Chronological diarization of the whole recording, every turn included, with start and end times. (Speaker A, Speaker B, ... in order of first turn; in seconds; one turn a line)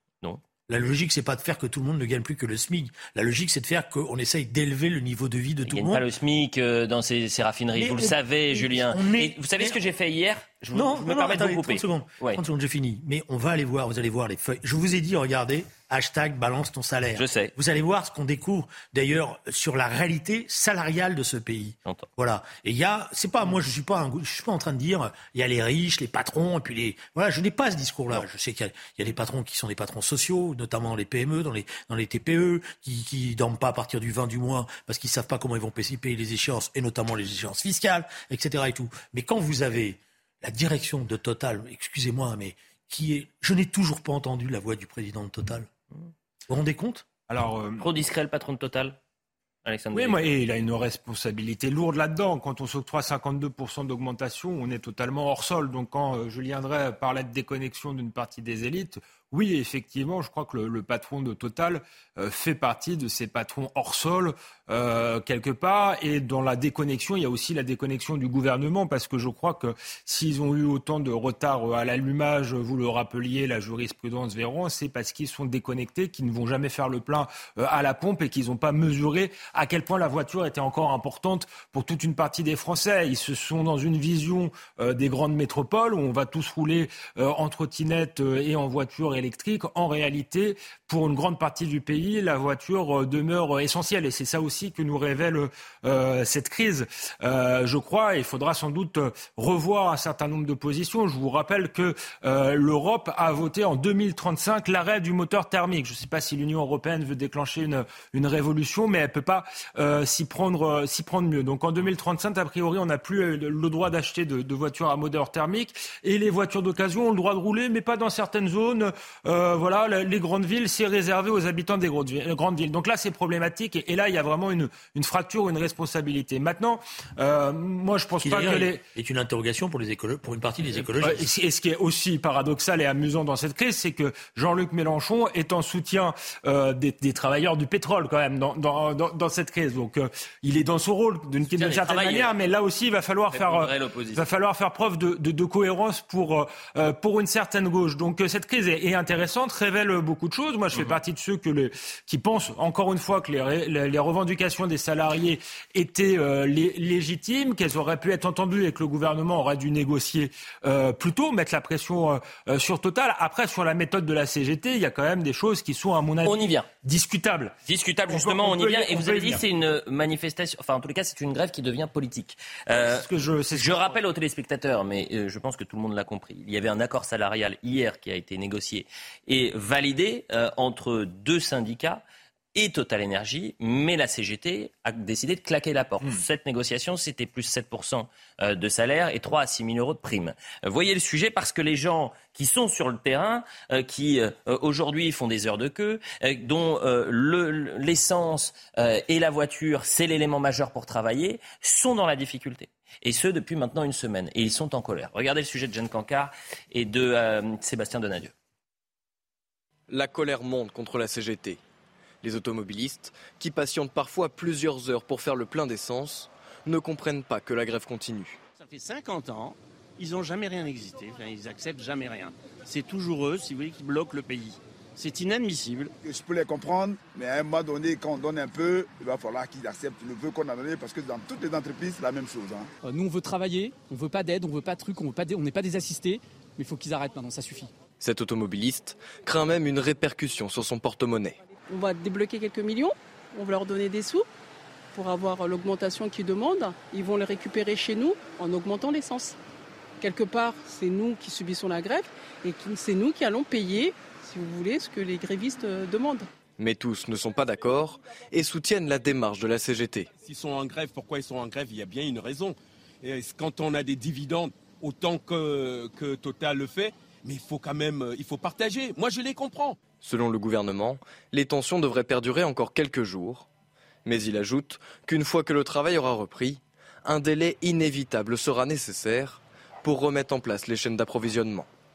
Speaker A: 0.7-6.0
Speaker B: 5.6-12.4
Speaker A: 7.8-9.8
Speaker A: 10.7-45.7
Speaker B: 17.1-17.5
Speaker A: 46.5-47.0
Speaker C: 47.3-47.9
Speaker B: 47.8-49.0
Speaker B: 49.6-50.2
Speaker C: 49.9-128.8
Speaker A: 128.2-131.2
Speaker C: 131.0-167.5
Speaker B: 141.6-142.3
Speaker B: 143.3-144.2
Speaker B: 166.2-166.7
Speaker B: 167.7-182.0
Speaker C: 168.1-169.4
Speaker C: 172.7-173.9
Speaker B: 182.5-208.3
Speaker D: 209.9-211.6
Speaker D: 212.2-218.4
Speaker E: 218.5-225.9
Speaker F: 226.0-232.7
Speaker G: 232.8-237.7
Speaker D: 238.0-241.4
Speaker H: 241.7-244.2
Speaker H: 244.9-249.3
Speaker H: 250.0-256.3
Speaker D: 256.6-260.1
Speaker I: 260.1-269.8
Speaker D: 270.0-273.5
Speaker D: 274.0-281.7